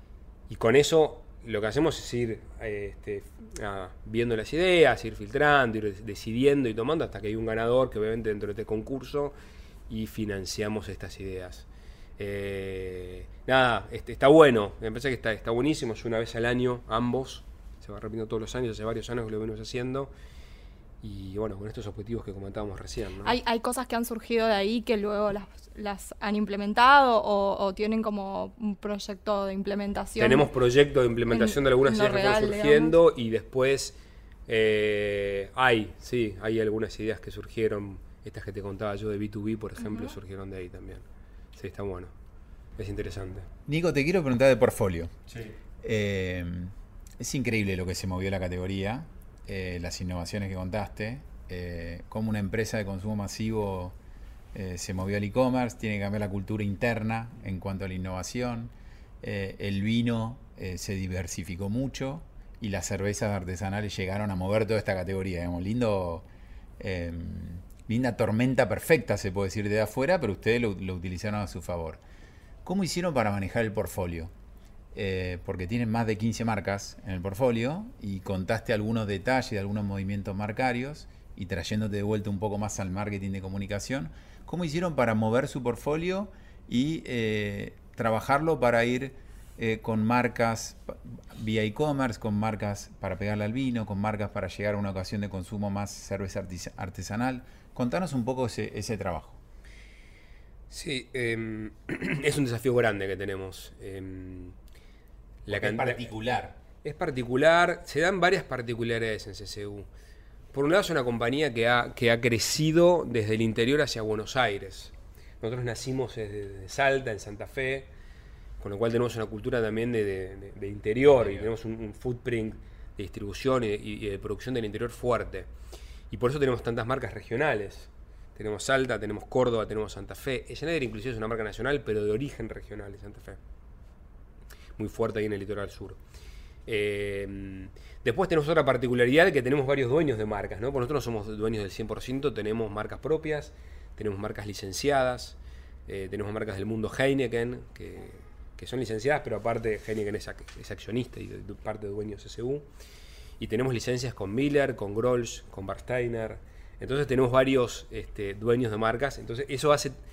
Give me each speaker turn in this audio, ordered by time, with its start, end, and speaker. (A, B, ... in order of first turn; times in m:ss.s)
0:00.5-0:09.3 A
0:09.9-0:11.7 A
0:12.2-0:20.1 A
0:21.0-0:23.4 A
0:23.2-0:30.5 B
0:30.2-0:34.0 A
0:31.3-0:32.9 B
0:34.5-0:42.1 A
0:39.8-0:40.1 B
0:42.8-0:43.5 A
0:43.7-0:45.1 C
0:45.8-0:54.0 C
0:54.5-1:06.3 C
1:06.8-1:12.0 C
1:12.6-1:14.3 C
1:14.9-1:39.4 C
1:40.7-1:44.5 A
1:45.4-1:46.1 A
1:45.5-1:46.6 C
1:46.8-1:49.9 A
1:50.5-1:57.9 A
1:58.6-2:05.5 A
2:01.2-2:01.5 C
2:06.1-2:13.4 A
2:14.8-2:16.0 A
2:16.7-2:32.6 A
2:33.4-2:39.9 A